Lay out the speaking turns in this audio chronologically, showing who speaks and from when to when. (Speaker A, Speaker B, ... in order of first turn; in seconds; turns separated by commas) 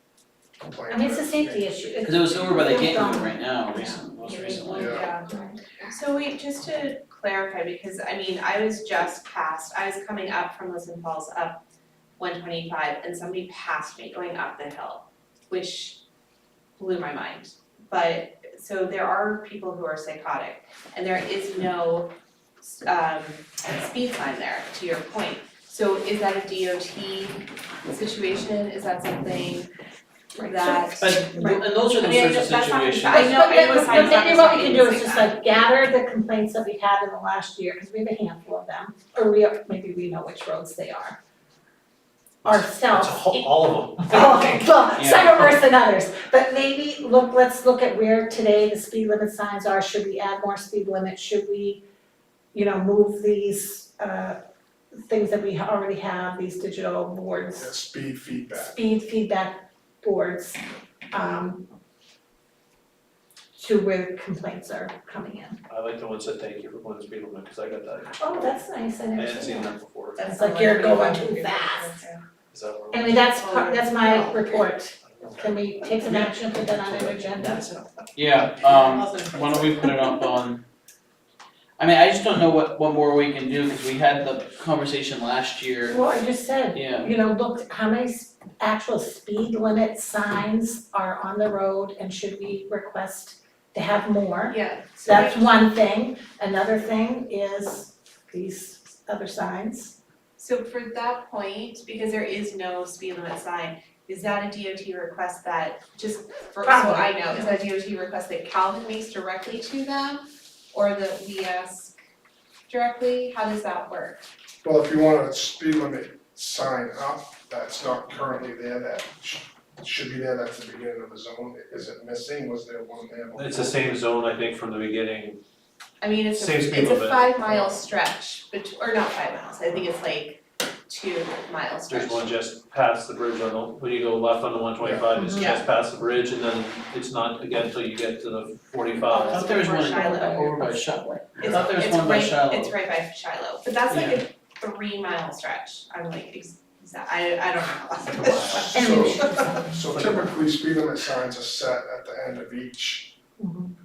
Speaker A: 0.6-1.8, Speaker B: 0.9-5.6, Speaker C: 2.0-5.0, Speaker D: 4.7-11.6, Speaker A: 4.8-5.1, Speaker D: 12.2-16.0, Speaker D: 16.8-29.7, Speaker B: 30.4-30.7, Speaker D: 30.4-31.1, Speaker C: 30.5-33.6, Speaker B: 31.3-31.6, Speaker D: 31.9-35.4, Speaker B: 33.1-41.2, Speaker E: 42.4-45.5, Speaker B: 42.5-43.5, Speaker B: 44.1-51.8, Speaker C: 45.0-45.3, Speaker B: 52.5-54.4, Speaker B: 55.1-57.8, Speaker A: 57.6-58.8, Speaker B: 58.6-60.6, Speaker B: 61.1-61.7, Speaker B: 63.5-65.6, Speaker E: 65.7-68.6, Speaker B: 68.2-72.0, Speaker E: 69.2-70.3, Speaker D: 70.2-72.2, Speaker E: 72.5-73.3, Speaker B: 72.9-77.7, Speaker D: 73.4-74.6, Speaker E: 75.2-75.5, Speaker E: 76.9-77.7, Speaker C: 78.2-80.6, Speaker D: 78.6-79.9, Speaker C: 81.8-86.0, Speaker B: 85.9-100.0, Speaker C: 86.7-87.1, Speaker D: 94.5-95.5, Speaker D: 100.4-112.0, Speaker B: 106.7-107.5, Speaker D: 112.7-114.3, Speaker A: 114.6-123.9, Speaker E: 123.4-125.4, Speaker D: 126.0-132.3, Speaker E: 126.3-127.5, Speaker E: 131.9-139.8, Speaker A: 134.8-135.1, Speaker B: 135.2-135.4, Speaker D: 135.3-135.7, Speaker D: 139.1-140.8, Speaker C: 139.3-142.7, Speaker B: 140.0-140.3, Speaker D: 141.4-149.7, Speaker C: 143.9-144.2, Speaker E: 148.1-148.8, Speaker B: 148.7-149.7, Speaker A: 148.7-153.2, Speaker E: 149.9-150.3, Speaker B: 153.4-153.7